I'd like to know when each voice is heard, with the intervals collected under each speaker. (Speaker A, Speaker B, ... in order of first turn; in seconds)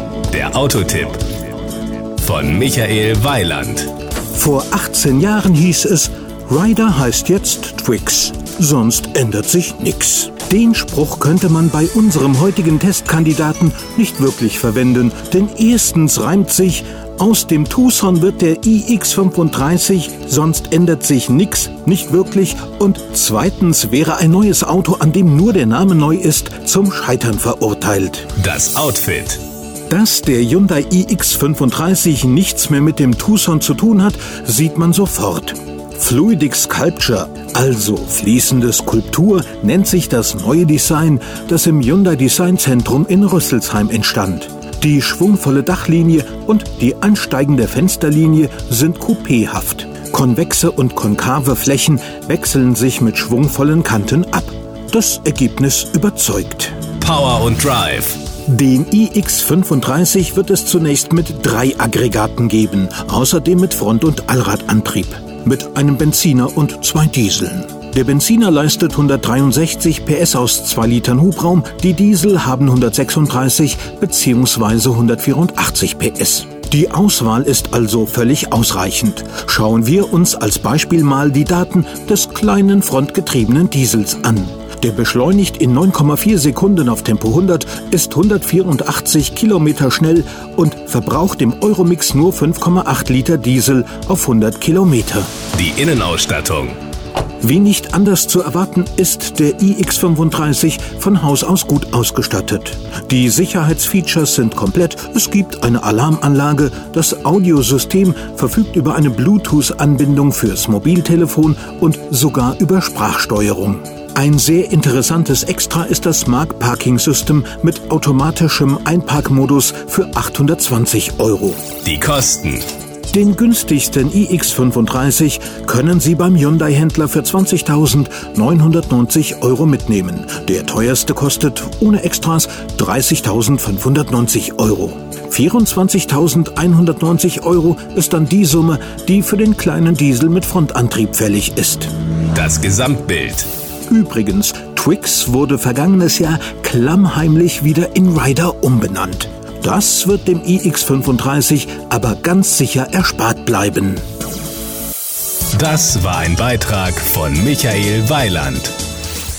Speaker A: 0.3-1.2, 2.2-3.9, 28.4-29.4, 57.0-58.2, 95.5-96.8, 121.8-122.6, 142.3-143.5, 155.5-158.7
Speaker B: 4.3-28.3, 29.9-56.8, 58.5-95.3, 97.4-121.6, 123.1-141.9, 143.9-154.0